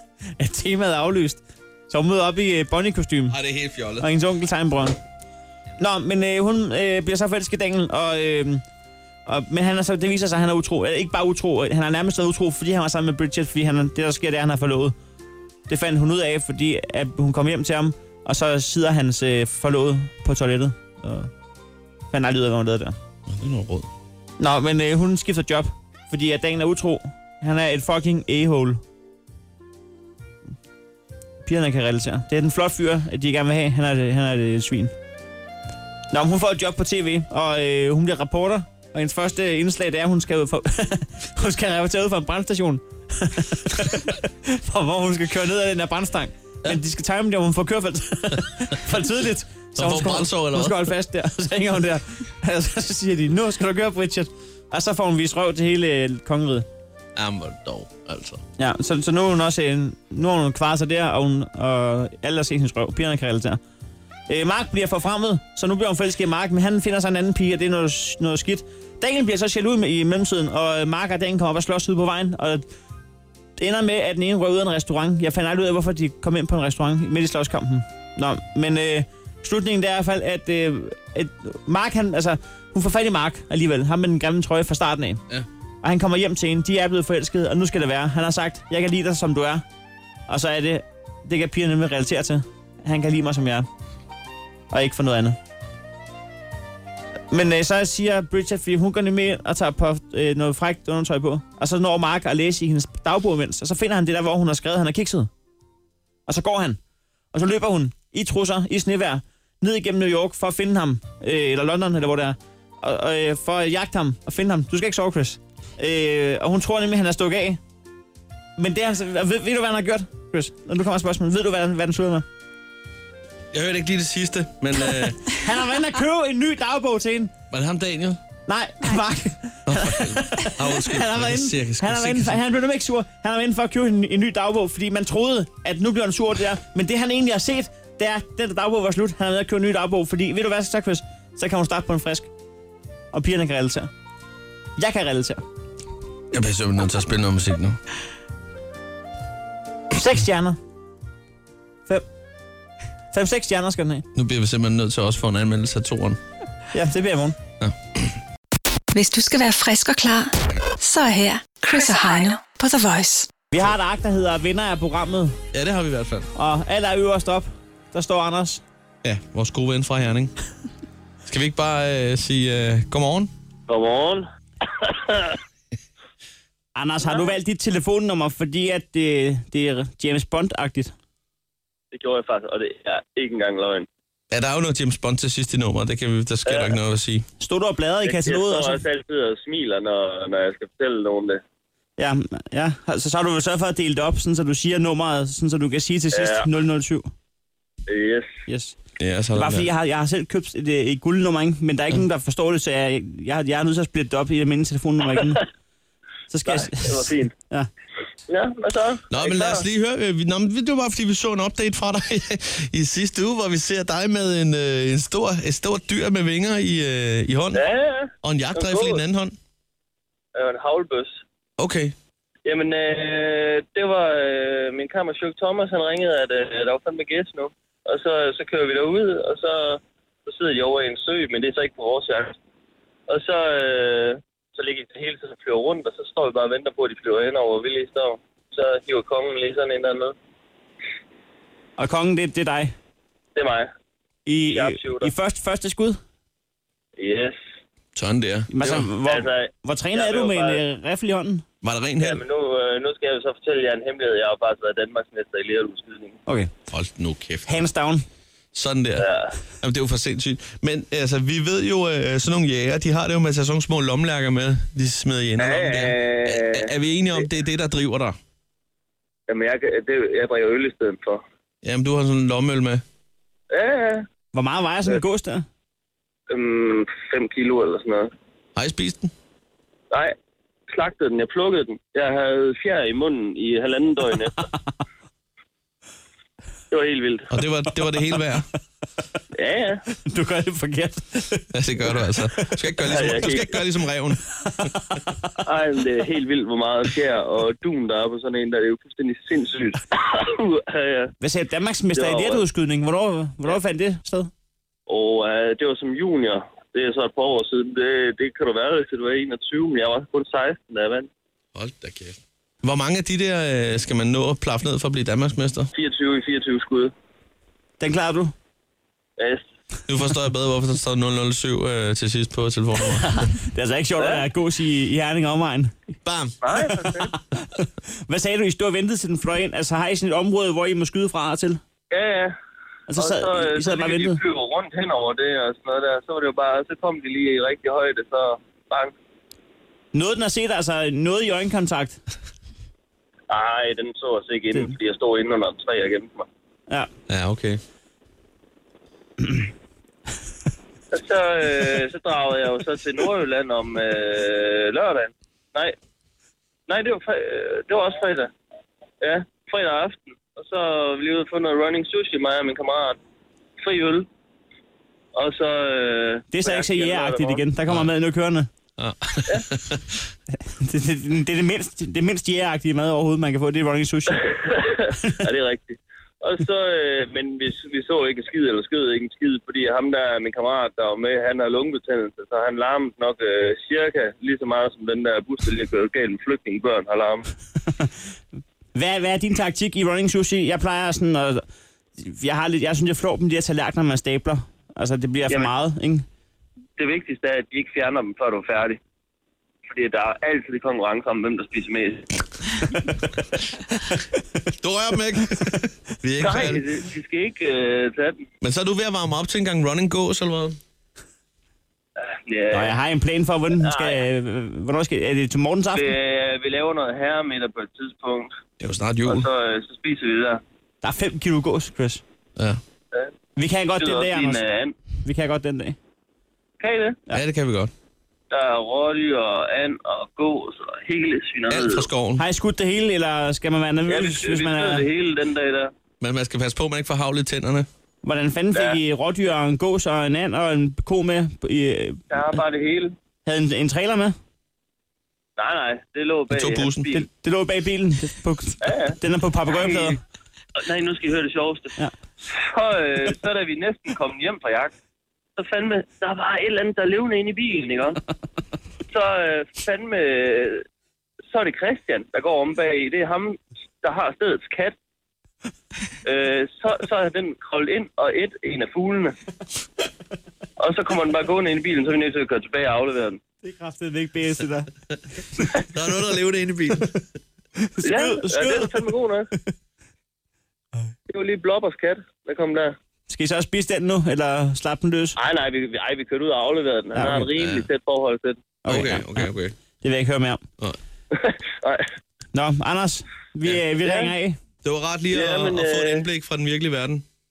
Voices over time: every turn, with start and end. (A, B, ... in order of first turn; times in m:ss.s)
0:00.4-0:03.4 A
0:03.3-0:04.1 B
0:04.0-0:05.0 A
0:05.8-0:08.6 A
0:09.3-0:15.0 A
0:15.7-0:21.3 A
0:22.1-0:23.0 A
0:23.3-0:23.9 B
0:24.4-0:28.8 A
0:31.4-0:34.9 A
0:36.1-0:56.6 A
0:49.8-0:50.9 B
0:57.2-0:58.4 B
0:58.6-1:03.6 A
1:04.3-1:12.7 A
1:13.6-1:25.2 A
1:25.8-1:29.6 A
1:30.3-1:33.7 A
1:34.7-1:35.4 A
1:37.3-1:45.3 A
1:46.3-1:46.8 A
1:47.3-1:57.6 A
1:58.6-2:02.2 A
2:03.5-2:05.2 B
2:05.3-2:07.3 A
2:07.5-2:08.2 B
2:08.5-2:22.3 A
2:09.7-2:12.4 B
2:23.1-2:23.9 A
2:24.8-2:25.4 A
2:26.3-2:27.8 B
2:30.0-2:30.6 A
2:33.1-2:34.1 A
2:34.2-2:36.2 B
2:36.7-2:37.4 A
2:37.6-2:38.2 B
2:38.9-2:43.3 C
2:43.5-2:45.4 A
2:45.5-2:46.3 B
2:46.4-2:48.6 A
2:49.0-2:50.3 B
2:51.3-2:53.3 B
2:53.7-2:54.3 D
2:54.8-2:55.4 D
2:56.8-3:00.9 A
2:57.1-2:57.3 D
3:01.9-3:03.9 D
3:04.3-3:07.3 B
3:06.5-3:06.8 D
3:07.4-3:08.8 A
3:08.0-3:11.4 D
3:12.0-3:17.1 A
3:16.1-3:16.5 D
3:17.9-3:18.3 D
3:18.5-3:18.8 A
3:19.0-3:19.7 B
3:19.4-3:25.4 A
3:26.3-3:27.7 A
3:26.4-3:27.3 D
3:28.3-3:29.6 D
3:29.1-3:37.6 B
3:37.5-3:39.0 D
3:38.2-3:39.4 B
3:40.4-3:41.2 D
3:41.6-3:42.0 B
3:42.4-3:52.4 D
3:53.1-4:00.1 D
4:01.8-4:02.7 A
4:03.4-4:03.7 D
4:04.3-4:06.0 A
4:04.5-4:05.1 D
4:07.0-4:07.4 D
4:08.0-4:08.9 B
4:08.5-4:11.4 A
4:09.0-4:10.6 D
4:11.6-4:12.2 B
4:12.0-4:16.2 D
4:16.3-4:16.5 A
4:16.7-4:17.6 B
4:17.5-4:18.0 A
4:18.5-4:19.1 B
4:19.0-4:19.4 D
4:19.6-4:28.2 B
4:25.4-4:27.2 D
4:29.3-4:31.2 D
4:31.6-4:32.8 B
4:33.5-4:34.1 D
4:34.3-4:35.4 A
4:36.3-4:38.1 D
4:38.6-4:39.1 B
4:40.7-4:44.4 D
4:46.7-4:47.3 D
4:47.3-4:48.5 B
4:49.4-4:49.8 D
4:50.0-4:51.5 A
4:51.5-4:54.7 B
4:52.0-4:53.1 A
4:52.9-4:53.5 D
4:55.4-5:01.1 D
5:01.2-5:04.3 A
5:01.9-5:02.4 D
5:04.9-5:11.1 D
5:11.6-5:15.7 B
5:15.7-5:16.9 D
5:17.8-5:18.3 A
5:19.2-5:19.5 D
5:19.9-5:23.3 B
5:23.0-5:25.7 A
5:24.0-5:24.3 D
5:26.0-5:26.4 B
5:26.4-5:27.1 D
5:26.8-5:31.6 A
5:31.9-5:32.4 D
5:32.9-5:34.2 A
5:33.0-5:38.9 D
5:39.9-5:42.0 A
5:43.3-5:46.3 D
5:47.1-5:47.6 B
5:50.9-5:55.8 D
5:56.7-5:58.3 D
5:59.0-6:03.0 D
6:03.6-6:04.1 D
6:05.2-6:07.4 D
6:06.3-6:08.5 A
6:08.8-6:10.0 B
6:10.5-6:14.3 A
6:14.1-6:27.3 D
6:28.8-6:31.4 A
6:32.0-6:36.1 A
6:36.8-6:38.8 D
6:39.7-6:42.1 D
6:44.6-6:46.6 B
6:46.2-6:48.2 D
6:48.4-6:50.6 B
6:52.1-6:52.8 D
6:52.5-6:56.0 A
6:53.6-6:54.0 D
6:55.7-6:58.3 D
6:58.6-6:59.3 B
6:59.0-7:00.4 D
7:00.8-7:02.0 A
7:03.4-7:04.4 A
7:03.8-7:04.8 D
7:05.0-7:05.8 A
7:06.6-7:07.0 D
7:07.1-7:07.7 B
7:08.3-7:11.9 D
7:11.5-7:12.2 B
7:12.2-7:14.9 A
7:13.9-7:15.7 D
7:16.0-7:17.7 B
7:18.0-7:22.4 A
7:18.5-7:18.8 D
7:22.1-7:23.0 D
7:23.3-7:24.2 A
7:25.4-7:27.1 D
7:26.3-7:26.9 B
7:26.9-7:30.0 A
7:28.6-7:29.0 D
7:29.5-7:30.0 D
7:30.6-7:31.7 D
7:32.3-7:34.7 D
7:35.4-7:38.0 D
7:38.9-7:40.6 D
7:41.3-7:44.8 D
7:46.0-7:49.2 D
7:50.6-7:53.2 D
7:53.4-7:54.7 A
7:55.6-7:56.9 B
7:57.6-7:59.4 A
7:57.8-7:59.3 D
8:01.1-8:02.8 D
8:03.1-8:05.2 A
8:05.2-8:08.5 D
8:06.9-8:07.3 A
8:07.3-8:07.7 B
8:08.6-8:09.3 A
8:08.7-8:09.6 B
8:09.8-8:10.4 A
8:11.1-8:11.9 D
8:12.3-8:14.4 A
8:13.8-8:14.1 D
8:14.6-8:17.0 B
8:15.1-8:16.1 D